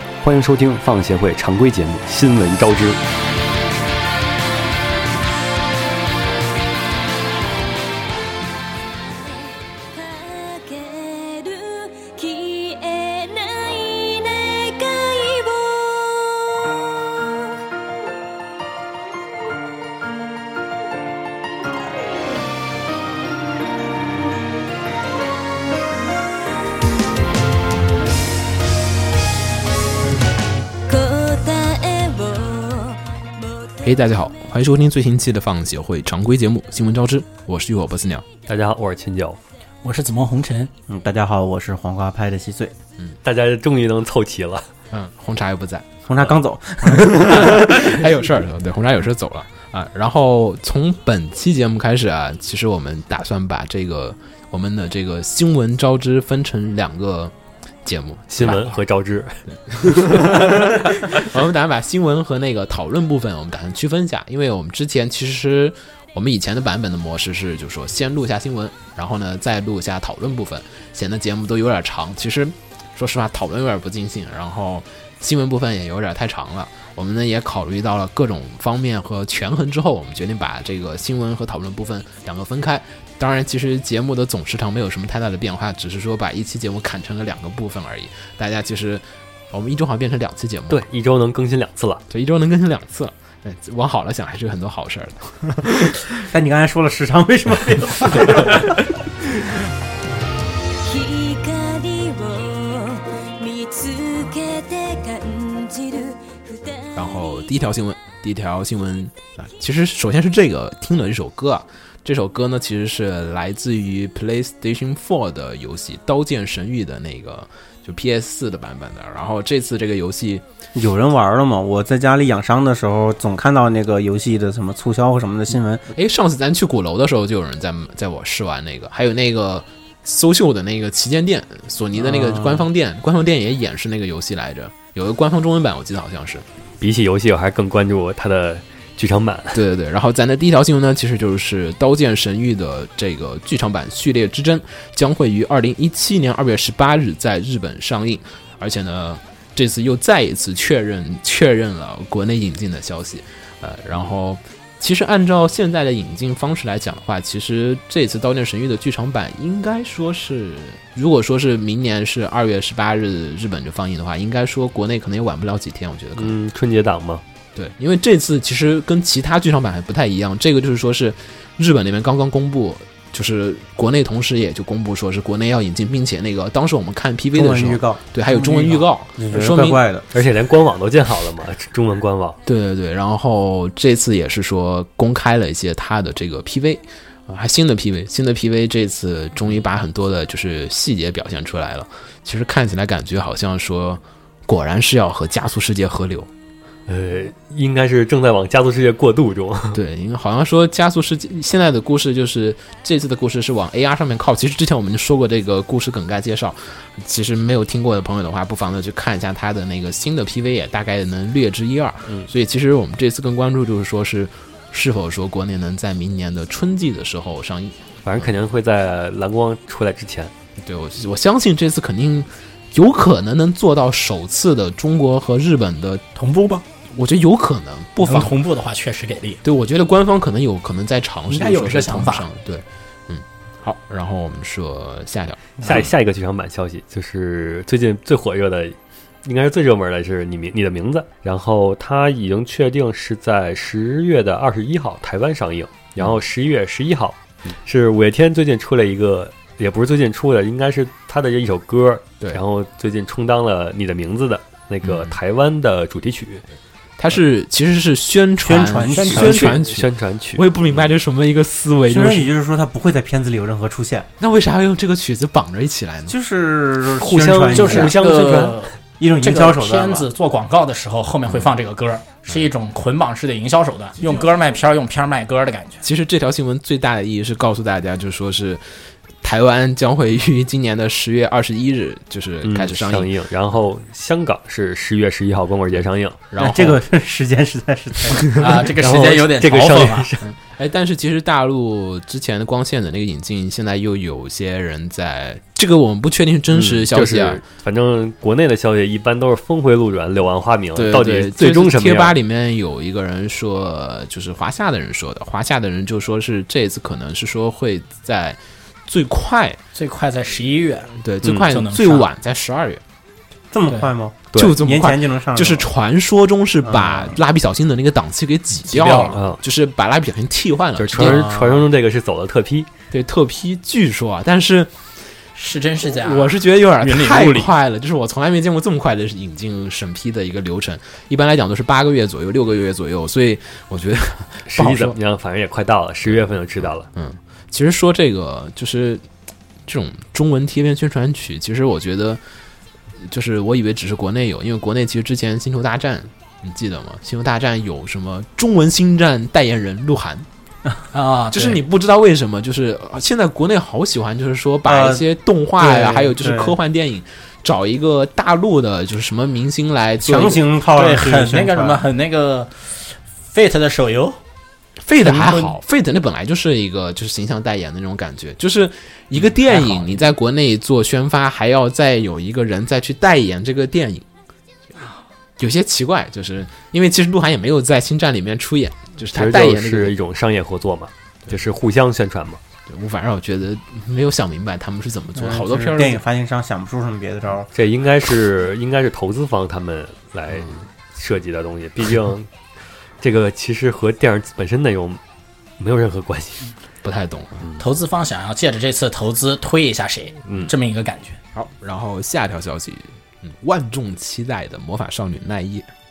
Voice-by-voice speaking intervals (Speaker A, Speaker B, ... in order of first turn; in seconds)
Speaker A: 0.2-3.0, 38.5-39.4, 43.2-44.7, 58.3-60.2, 90.7-92.0, 136.8-139.6, 166.1-167.2, 180.1-182.4, 196.9-199.8, 218.0-220.3, 235.6-256.4, 259.0-260.9, 266.9-268.6, 282.4-286.2, 288.8-290.2, 296.5-302.1, 311.2-311.5, 319.1-319.4, 320.8-322.7, 334.4-336.9, 379.1-382.4, 387.5-392.3, 393.0-395.0, 395.6-396.5, 400.2-400.5
Speaker B: 9.9-17.4, 30.9-33.9, 100.8-107.0
Speaker C: 33.8-38.2, 44.9-45.9, 46.8-58.8, 59.5-90.8, 92.1-96.0, 106.9-120.4, 125.9-136.4, 139.5-166.4, 167.5-179.8, 182.4-196.3, 199.7-218.2, 220.6-226.2, 226.8-228.4, 229.4-235.7, 254.8-255.1, 257.0-262.3, 264.2-266.1, 275.8-278.6, 279.2-283.1, 286.3-286.8, 290.2-297.4, 300.7-309.6, 310.9-312.8, 314.3-321.3, 322.9-324.7, 325.9-335.0, 336.8-339.0, 339.6-342.2, 343.0-350.3, 351.3-360.4, 364.8-374.0, 375.4-379.9, 382.7-386.0, 396.8-397.5, 401.3-405.7
Speaker D: 39.8-40.7, 178.3-178.8, 226.2-226.6, 228.0-229.4, 231.3-232.3, 267.5-275.8, 288.4-290.1, 309.7-310.9, 311.5-312.1, 318.6-319.2, 325.3-327.5, 350.9-351.6, 360.6-364.2, 365.0-365.6, 369.5-369.9, 397.6-401.2
Speaker E: 40.9-42.7, 46.0-48.0, 96.2-98.8, 120.7-125.9, 132.0-132.7, 177.3-178.0, 179.2-180.1, 258.4-259.6, 261.9-264.1, 266.1-268.0, 269.0-270.1, 286.4-288.4, 313.5-315.7, 316.6-317.2, 321.0-321.7, 354.6-355.1, 355.6-356.6, 360.1-361.8, 385.1-387.5